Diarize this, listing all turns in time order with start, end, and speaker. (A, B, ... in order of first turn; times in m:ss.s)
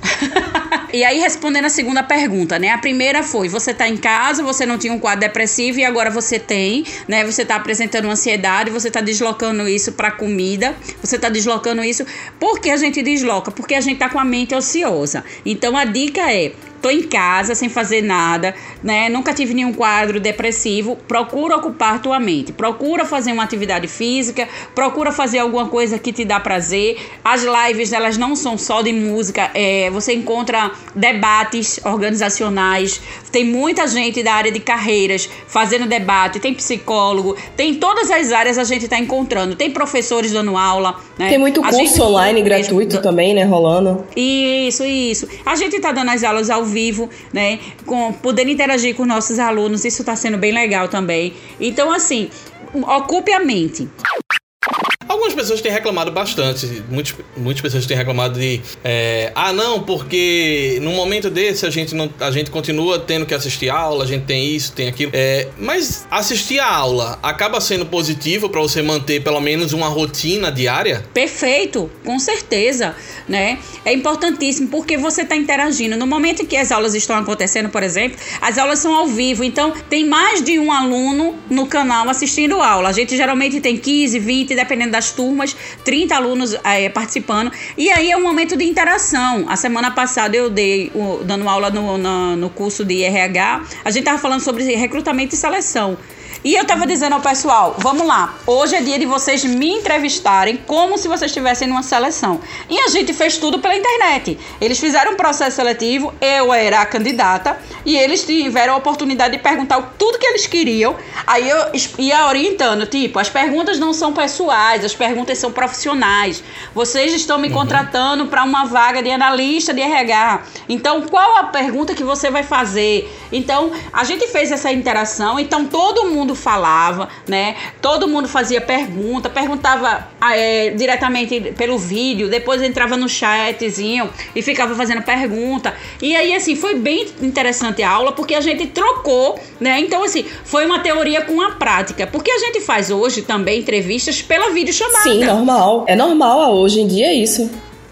0:00.9-0:43.0 A
0:41.3-0:44.1 B
0:44.2-0:53.9 A
0:55.1-1:11.1 C
1:11.1-2:25.4 A
1:57.5-1:57.8 C
2:24.9-2:27.6 B